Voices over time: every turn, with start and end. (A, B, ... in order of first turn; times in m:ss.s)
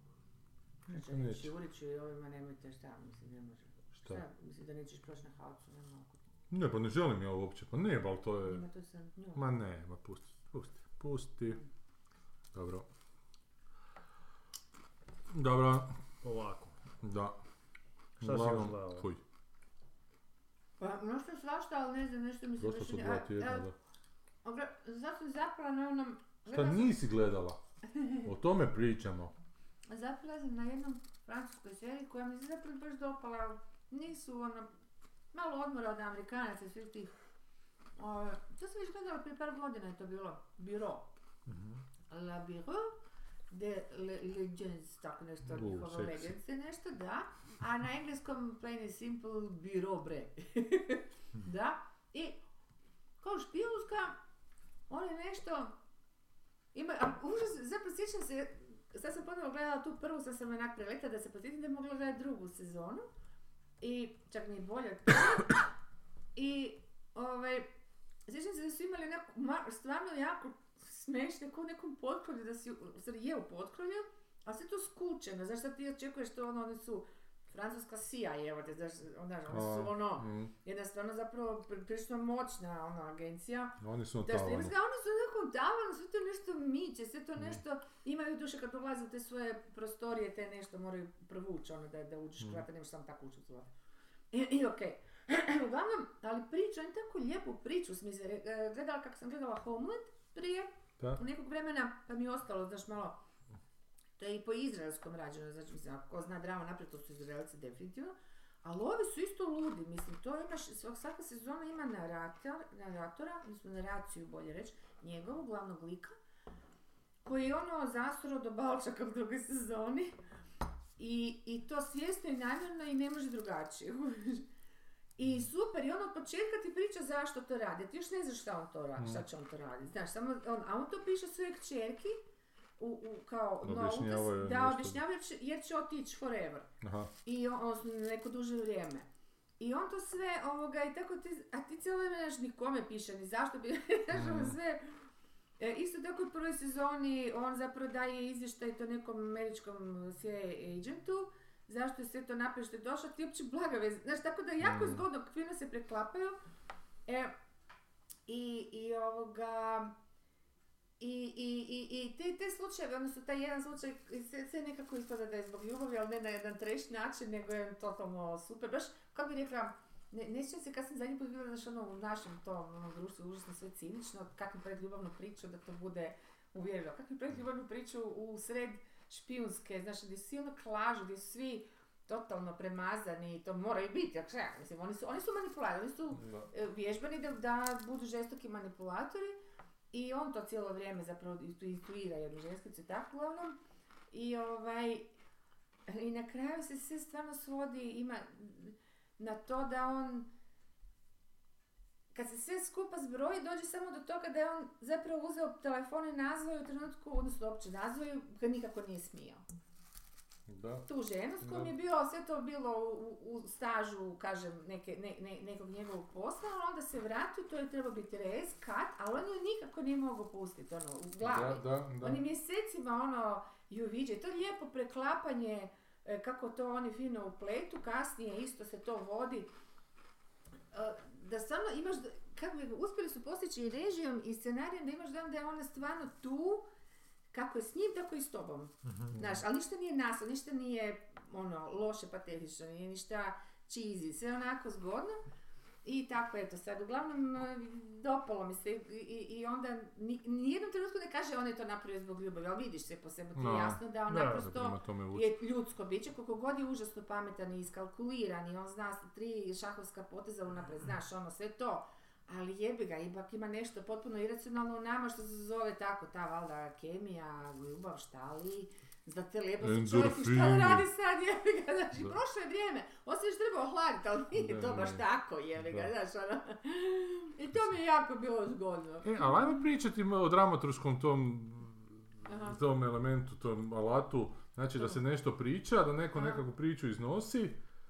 0:00.8-0:01.5 A
0:00.9-0:06.2 B
0:03.9-0:04.2 A
0:06.5-0:08.6 A
0:08.4-0:09.5 B
0:09.3-0:11.6 A
0:12.5-0:12.9 A
0:15.3-0:15.9 A
0:16.2-0:16.7 C
0:17.0-0:17.4 A
0:18.2-0:19.1 C
0:18.2-0:19.2 A
0:20.8-0:23.7 B
0:22.6-0:23.7 A
0:24.4-0:26.9 B
0:26.5-0:27.6 A
0:28.0-0:28.2 B
0:28.2-0:29.3 A
0:29.9-0:34.7 B
0:35.3-0:37.1 B
0:38.0-0:41.1 B
0:41.4-0:41.8 C
0:42.1-0:42.9 B
0:43.5-0:52.4 B
0:45.5-0:46.3 A
0:53.2-0:54.2 B
0:54.9-0:55.7 B
0:56.7-1:03.0 B
1:03.8-1:05.6 B
1:06.3-1:07.7 B
1:08.3-1:33.7 B
1:19.5-1:20.5 A
1:23.8-1:24.7 A
1:34.3-1:43.2 B
1:44.2-1:56.1 B
1:57.2-2:00.1 B
2:01.0-2:04.4 B
2:05.2-2:12.2 B
2:09.0-2:09.2 A
2:12.8-2:16.7 B
2:13.6-2:15.0 A
2:16.8-2:17.1 A
2:17.2-2:19.1 B
2:19.6-2:25.0 B
2:24.1-2:24.6 A
2:25.6-2:36.4 B
2:34.6-2:35.0 A
2:37.1-2:37.3 B
2:38.3-2:39.9 B
2:41.0-3:09.4 B
3:06.2-3:06.5 A
3:09.9-3:13.6 B
3:14.1-3:15.1 B
3:15.9-3:20.3 B
3:22.1-3:29.4 B
3:30.5-3:30.8 A
3:30.8-3:49.5 B
3:31.4-3:31.7 A
3:41.2-3:42.2 A
3:50.7-3:56.6 B
3:57.3-4:05.2 B
3:58.8-3:59.2 C
4:05.8-4:39.6 B
4:13.3-4:15.3 A
4:14.1-4:14.4 C
4:29.6-4:30.9 A
4:34.3-4:35.0 A
4:35.6-4:35.9 A
4:39.0-4:47.6 A
4:42.2-4:42.6 B
4:46.1-4:46.4 B